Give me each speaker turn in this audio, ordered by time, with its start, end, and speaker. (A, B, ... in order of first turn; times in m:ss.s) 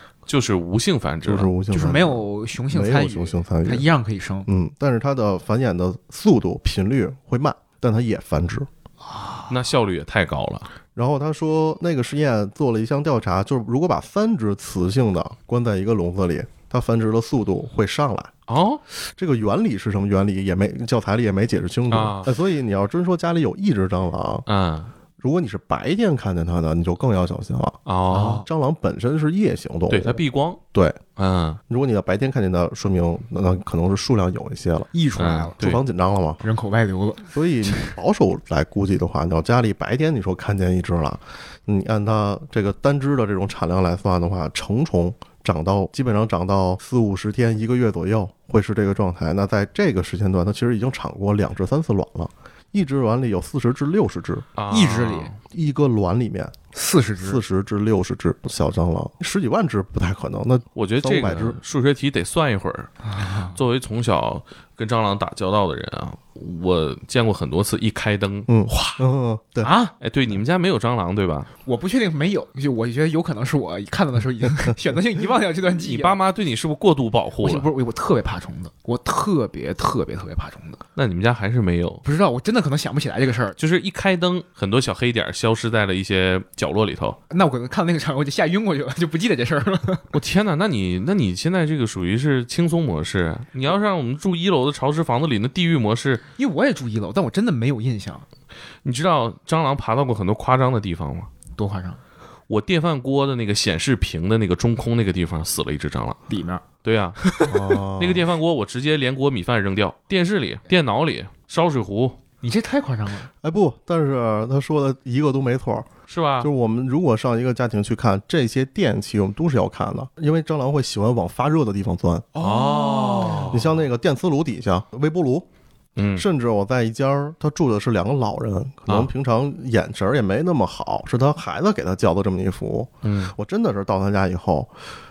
0:00.3-0:01.5 A
0:01.2-0:03.9 B
0:01.7-0:04.5 C
0:04.4-0:08.7 B
0:09.5-0:10.7 A
0:10.9-0:18.3 B
0:18.5-0:18.8 A
0:19.0-0:24.4 B
0:21.9-0:22.3 A
0:24.5-0:24.9 A
0:25.2-0:27.8 B
0:27.8-0:28.4 A
0:28.1-0:28.5 C
0:28.4-0:30.2 B
0:29.9-0:30.6 A
0:30.7-0:31.0 B
0:31.2-0:31.6 A
0:31.7-0:34.9 B
0:34.9-0:35.6 C
0:35.2-0:35.8 A
0:35.6-0:36.4 B
0:36.4-0:37.3 C
0:37.3-0:54.5 B
0:54.6-0:55.4 A
0:54.7-0:55.3 C
0:55.5-0:56.5 B
0:56.7-0:57.4 C
0:57.2-1:01.6 B
1:00.8-1:02.9 A
1:03.0-1:03.6 C
1:03.4-1:09.0 A
1:08.5-1:09.7 B
1:09.6-1:09.9 C
1:10.0-1:11.5 A
1:11.6-1:16.2 C
1:15.7-1:17.7 A
1:17.4-1:20.8 C
1:21.0-1:22.0 A
1:22.0-1:23.6 C
1:23.6-1:27.2 A
1:27.3-1:30.0 C
1:30.1-1:36.2 A
1:36.4-1:38.2 C
1:38.8-1:41.3 A
1:41.6-1:42.0 C
1:42.5-1:46.2 A
1:46.3-1:46.6 C
1:46.8-1:47.3 A
1:47.5-1:48.3 B
1:47.9-1:52.2 A
1:52.4-1:53.3 C
1:53.4-2:02.3 B
1:56.1-1:56.5 A
2:02.3-2:03.6 C
2:02.4-2:03.6 A
2:03.5-2:05.5 B
2:06.0-2:06.2 A
2:06.1-2:14.7 B
2:13.0-2:13.3 A